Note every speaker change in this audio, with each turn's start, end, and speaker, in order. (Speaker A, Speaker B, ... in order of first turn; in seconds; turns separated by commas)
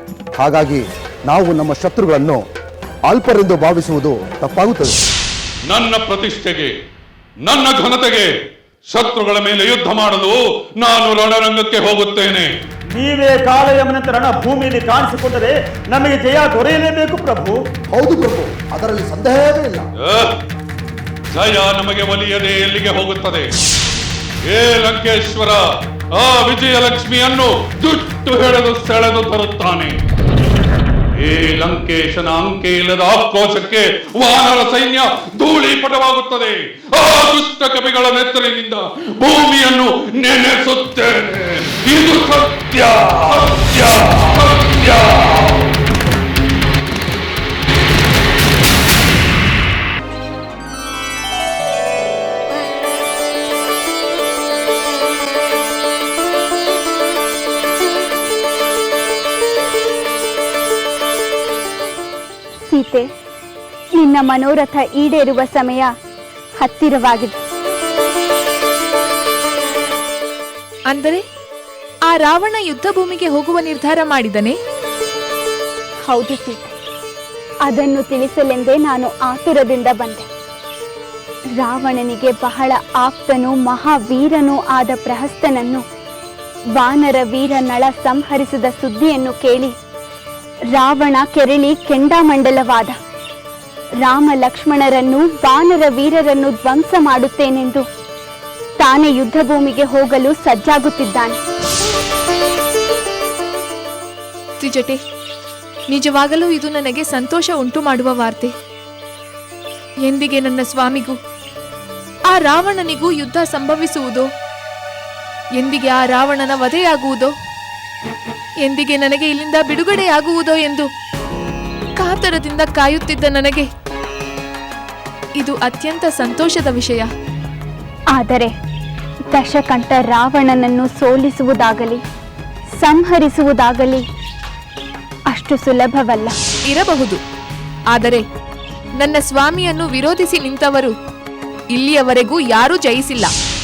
Speaker A: 0.4-2.4, Speaker A: 3.1-5.0, Speaker B: 5.7-6.7, Speaker B: 7.4-8.3, Speaker B: 8.9-12.5, Speaker C: 12.9-17.6, Speaker A: 17.9-19.9, Speaker B: 20.1-20.3, Speaker B: 21.3-23.5, Speaker B: 24.5-29.9, Speaker B: 31.2-45.7, Speaker D: 62.7-63.1, Speaker D: 64.0-65.9, Speaker D: 66.6-67.3, Speaker E: 70.9-71.2, Speaker E: 72.1-74.6, Speaker D: 76.1-76.7, Speaker D: 77.7-80.2, Speaker D: 81.6-85.8, Speaker D: 86.8-89.7, Speaker D: 90.7-92.9, Speaker D: 94.0-97.8, Speaker D: 98.8-101.4, Speaker E: 104.6-105.0, Speaker E: 105.9-108.5, Speaker E: 110.0-111.2, Speaker E: 112.3-114.3, Speaker E: 115.6-117.3, Speaker E: 118.6-120.9, Speaker E: 122.0-123.7, Speaker E: 125.4-127.1, Speaker D: 128.1-128.5, Speaker D: 129.3-132.0, Speaker D: 132.8-134.0, Speaker D: 135.3-136.3, Speaker E: 136.7-137.2, Speaker E: 137.9-138.2, Speaker E: 139.0-140.9, Speaker E: 141.7-143.3